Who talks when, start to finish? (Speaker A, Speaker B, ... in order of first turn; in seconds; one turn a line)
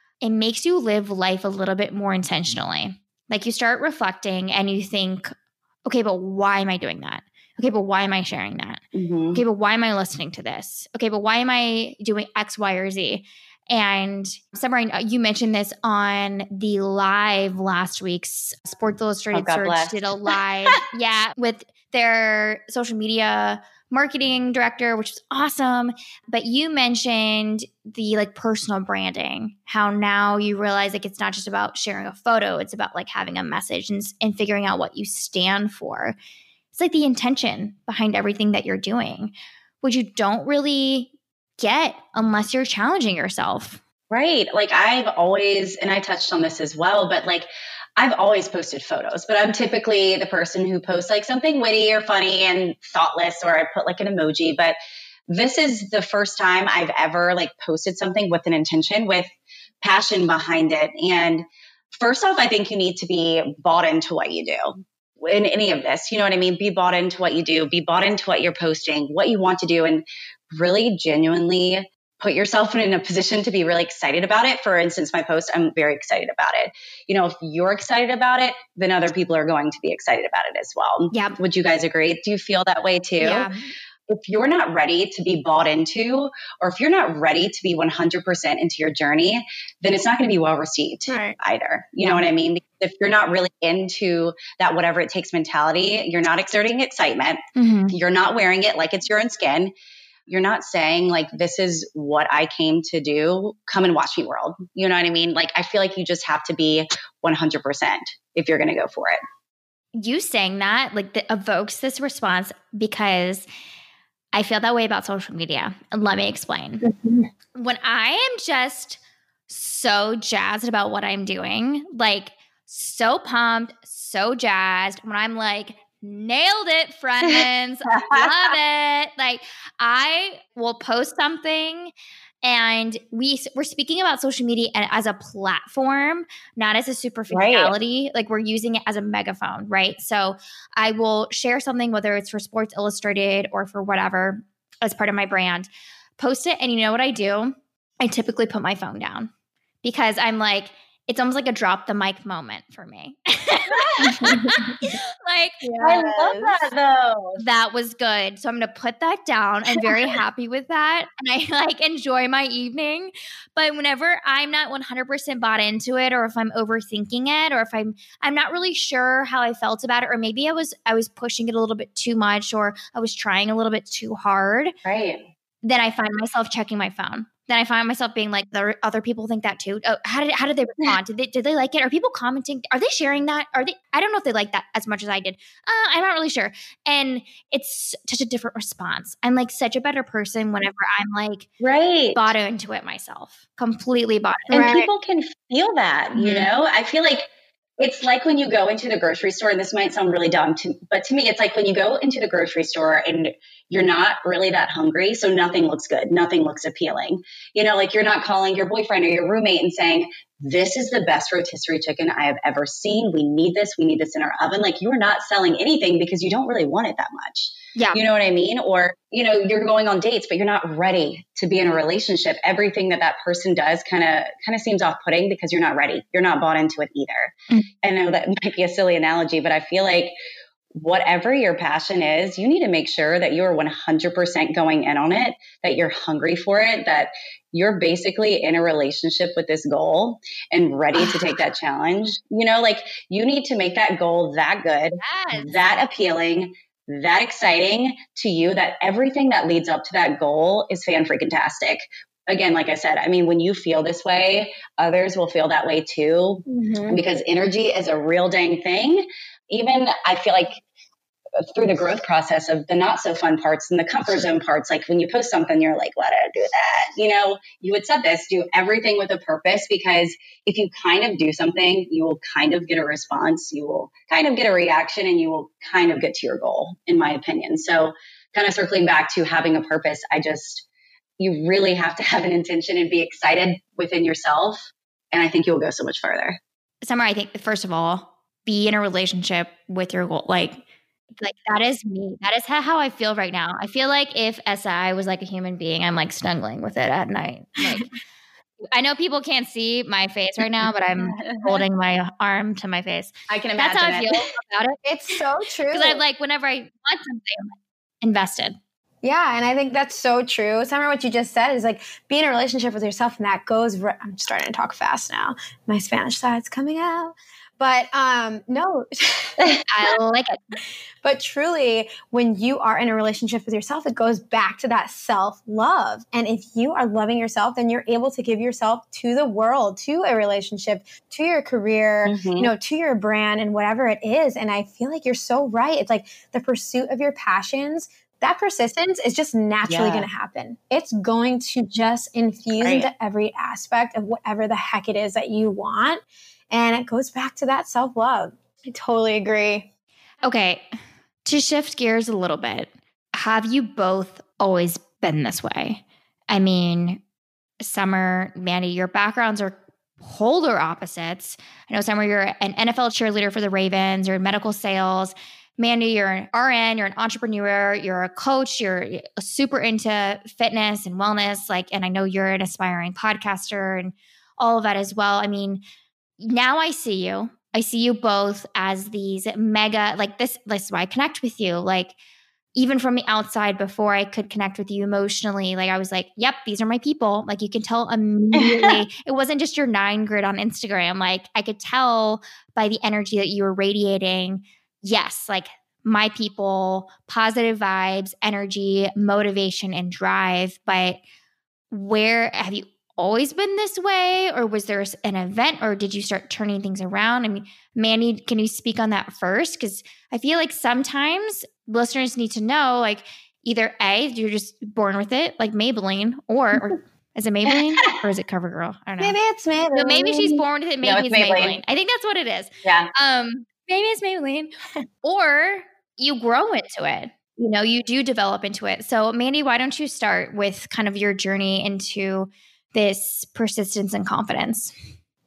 Speaker A: 0.2-5.3
Speaker A: 5.8-8.8
Speaker B: 8.9-9.4
Speaker A: 9.3-36.1
Speaker B: 19.3-20.1
Speaker A: 36.7-43.8
Speaker B: 44.1-54.8
Speaker B: 55.3-59.3
Speaker B: 59.8-70.0
Speaker B: 70.5-83.5
Speaker A: 81.1-81.4
Speaker A: 83.2-83.6
Speaker B: 84.1-97.4
Speaker C: 91.1-91.3
Speaker A: 97.5-97.9
Speaker B: 97.9-99.7
Speaker B: 100.3-109.2
Speaker A: 110.0-113.5
Speaker A: 114.3-116.8
Speaker C: 116.9-117.3
Speaker A: 117.5-131.9
Speaker B: 127.9-128.5
Speaker A: 132.4-149.3
Speaker B: 137.3-137.7
Speaker A: 149.8-156.5
Speaker B: 153.7-154.2
Speaker C: 154.2-154.8
Speaker C: 155.6-156.0
Speaker B: 155.8-157.4
Speaker A: 157.4-174.7
Speaker B: 174.8-175.3
Speaker A: 175.6-191.5
Speaker B: 191.6-192.3
Speaker A: 192.1-194.7
Speaker B: 194.5-197.3
Speaker C: 194.5-194.9
Speaker A: 196.1-196.5
Speaker B: 197.8-230.1
Speaker B: 230.7-260.6
Speaker A: 241.0-241.3
Speaker A: 245.0-245.6
Speaker C: 256.5-257.0
Speaker B: 261.5-280.6
Speaker B: 281.2-286.4
Speaker A: 286.8-290.6
Speaker A: 291.2-297.9
Speaker A: 298.7-305.1
Speaker B: 301.0-301.6
Speaker B: 303.3-304.2
Speaker C: 304.8-306.0
Speaker A: 305.7-308.6
Speaker C: 309.0-319.4
Speaker B: 319.4-319.6
Speaker A: 319.7-320.6
Speaker C: 321.0-349.7
Speaker B: 332.1-332.5
Speaker B: 339.7-340.1
Speaker B: 342.6-342.9
Speaker A: 350.2-350.6
Speaker A: 351.2-357.0
Speaker A: 357.6-375.6
Speaker A: 376.2-381.9
Speaker A: 382.5-401.0
Speaker B: 388.3-388.8
Speaker A: 401.7-419.2
Speaker C: 419.0-420.4
Speaker A: 419.7-424.5
Speaker B: 420.8-421.6
Speaker B: 422.6-422.9
Speaker A: 425.0-434.7